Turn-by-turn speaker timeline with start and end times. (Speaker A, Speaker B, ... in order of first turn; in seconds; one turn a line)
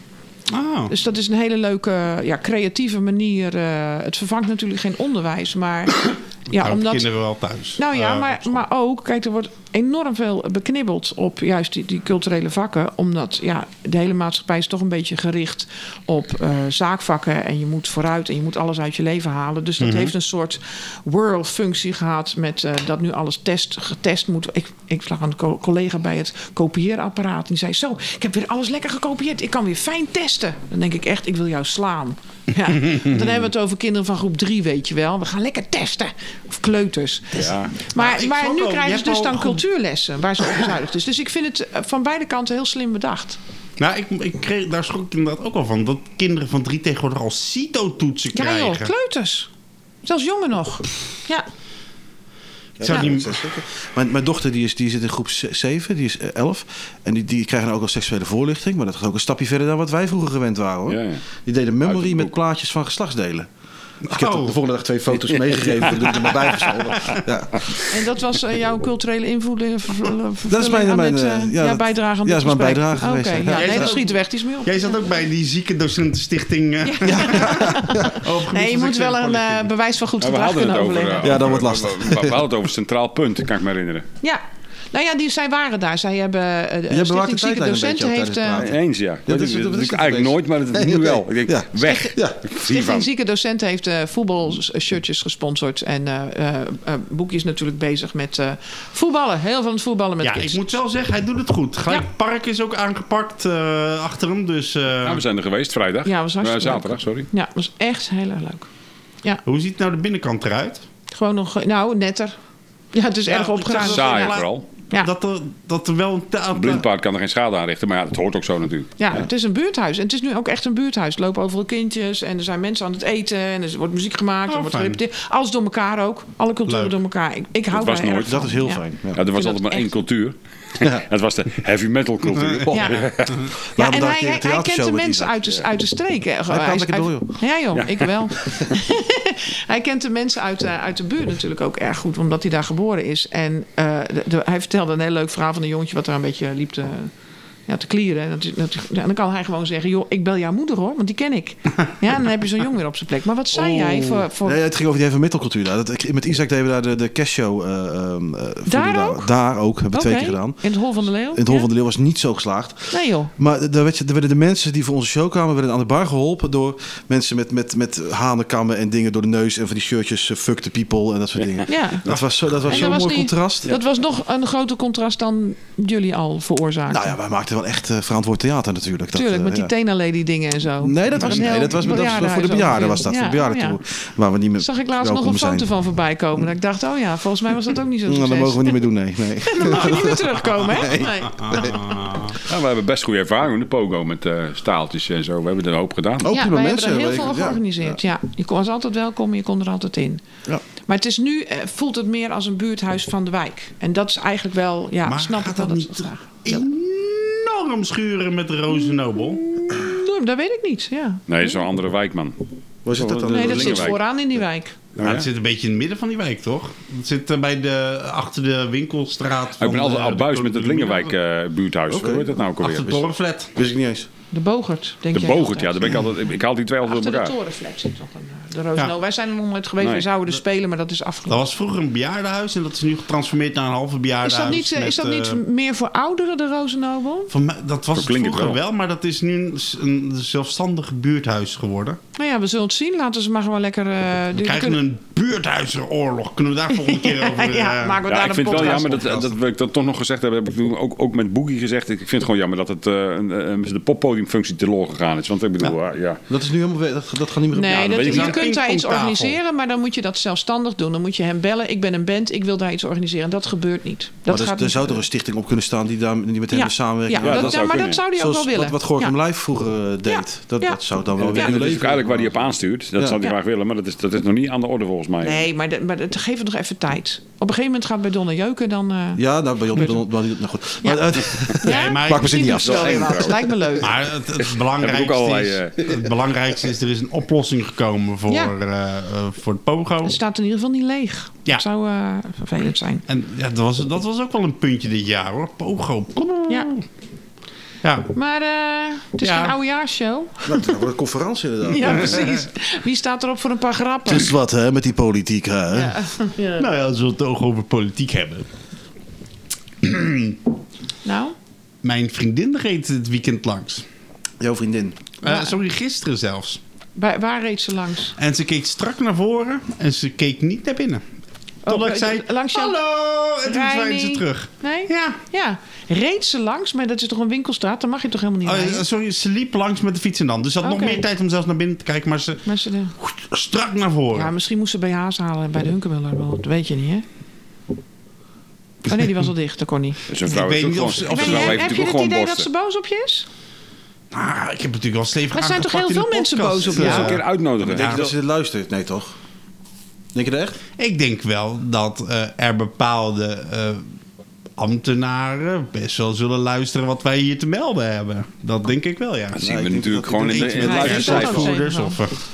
Speaker A: 0.5-0.9
Speaker B: 0.9-7.1
Speaker A: 6.5-8.5
Speaker B: 7.8-43.4
Speaker A: 19.8-20.1
Speaker C: 37.3-37.7
Speaker A: 37.9-39.6
Speaker A: 43.8-48.9
Speaker B: 48.3-49.5
Speaker B: 50.0-51.5
Speaker D: 52.8-63.5
Speaker A: 52.8-53.4
Speaker C: 60.9-61.2
Speaker C: 61.8-62.3
Speaker D: 64.0-68.0
Speaker A: 64.1-64.6
Speaker C: 65.2-67.1
Speaker B: 67.9-74.9
Speaker D: 70.5-73.9
Speaker A: 73.5-79.7
Speaker B: 76.8-81.5
Speaker D: 77.0-78.2
Speaker C: 80.2-84.1
Speaker D: 81.2-82.4
Speaker B: 84.2-88.7
Speaker D: 86.9-92.4
Speaker C: 88.6-93.1
Speaker B: 91.8-100.7
Speaker A: 100.2-105.2
Speaker C: 105.0-107.3
Speaker B: 106.0-108.7
Speaker A: 109.5-110.8
Speaker B: 111.1-112.4
Speaker B: 112.9-115.1
Speaker A: 113.2-116.9
Speaker C: 113.7-114.7
Speaker C: 116.5-119.2
Speaker B: 119.0-129.9
Speaker A: 124.5-125.0
Speaker A: 126.7-127.0
Speaker C: 127.7-128.5
Speaker D: 128.3-129.2
Speaker C: 129.1-133.4
Speaker A: 132.3-132.7
Speaker D: 132.7-135.6
Speaker B: 132.7-133.1
Speaker B: 133.8-147.1
Speaker D: 136.5-137.4
Speaker C: 137.8-138.1
Speaker B: 147.7-154.6
Speaker D: 154.4-160.8
Speaker B: 158.7-159.3
Speaker B: 159.9-161.7
Speaker D: 161.3-173.8
Speaker B: 162.9-163.3
Speaker C: 171.4-171.7
Speaker B: 171.7-172.1
Speaker B: 172.7-177.1
Speaker D: 176.9-179.7
Speaker B: 179.1-183.8
Speaker D: 180.8-185.7
Speaker B: 184.6-188.8
Speaker D: 188.1-191.8
Speaker B: 189.5-192.2
Speaker A: 191.3-192.4
Speaker C: 192.4-196.3
Speaker D: 196.2-198.0
Speaker B: 196.3-200.2
Speaker B: 200.8-206.6
Speaker A: 205.1-209.4
Speaker B: 209.2-211.6
Speaker C: 211.3-212.4
Speaker D: 212.8-214.0
Speaker C: 212.9-214.0
Speaker B: 213.3-214.8
Speaker C: 215.0-215.3
Speaker A: 215.0-221.2
Speaker C: 219.6-223.0
Speaker D: 221.9-222.3
Speaker A: 222.6-223.5
Speaker D: 223.6-224.1
Speaker B: 224.3-226.1
Speaker C: 225.1-227.3
Speaker B: 226.8-231.4
Speaker C: 229.8-230.1
Speaker A: 231.3-235.4
Speaker B: 234.2-237.3
Speaker A: 237.3-242.0
Speaker C: 238.0-238.6
Speaker B: 242.2-244.8
Speaker A: 244.4-248.0
Speaker B: 246.8-249.2
Speaker C: 248.1-256.2
Speaker D: 248.8-249.3
Speaker D: 256.3-258.4
Speaker B: 257.5-265.0
Speaker A: 257.9-259.4
Speaker D: 264.3-272.4
Speaker B: 266.5-269.2
Speaker C: 267.2-268.0
Speaker B: 270.1-271.5
Speaker C: 271.2-275.4
Speaker B: 275.2-280.0
Speaker D: 279.2-283.6
Speaker B: 280.8-283.9
Speaker A: 281.6-282.6
Speaker C: 282.4-283.4
Speaker A: 283.8-290.1
Speaker C: 284.4-285.9
Speaker B: 288.3-288.5
Speaker B: 290.0-293.0
Speaker A: 293.1-296.9
Speaker A: 297.8-298.1
Speaker B: 298.1-300.8
Speaker A: 299.2-299.6
Speaker D: 300.5-302.3
Speaker B: 301.6-304.3
Speaker D: 304.1-306.1
Speaker B: 305.7-306.7
Speaker A: 306.6-308.5
Speaker A: 309.8-310.4
Speaker B: 311.1-311.4
Speaker A: 311.8-313.9
Speaker D: 314.4-315.1
Speaker A: 315.2-316.6
Speaker B: 315.2-315.5
Speaker B: 317.0-318.2
Speaker A: 318.2-321.0
Speaker B: 321.7-322.8
Speaker A: 321.7-325.2
Speaker B: 323.4-328.9
Speaker A: 328.4-332.4
Speaker B: 330.6-331.0
Speaker B: 332.4-332.9
Speaker A: 333.0-334.3
Speaker B: 334.1-337.1
Speaker B: 338.9-340.5
Speaker C: 340.1-342.5
Speaker A: 340.3-341.7
Speaker B: 341.0-343.3
Speaker A: 344.1-347.2
Speaker B: 345.3-347.2
Speaker C: 346.7-348.1
Speaker D: 346.8-349.1
Speaker A: 347.7-348.1
Speaker D: 350.1-350.6
Speaker A: 350.8-353.9
Speaker A: 354.6-359.4
Speaker C: 359.4-361.6
Speaker D: 359.4-361.5
Speaker A: 360.3-362.1
Speaker B: 360.6-362.0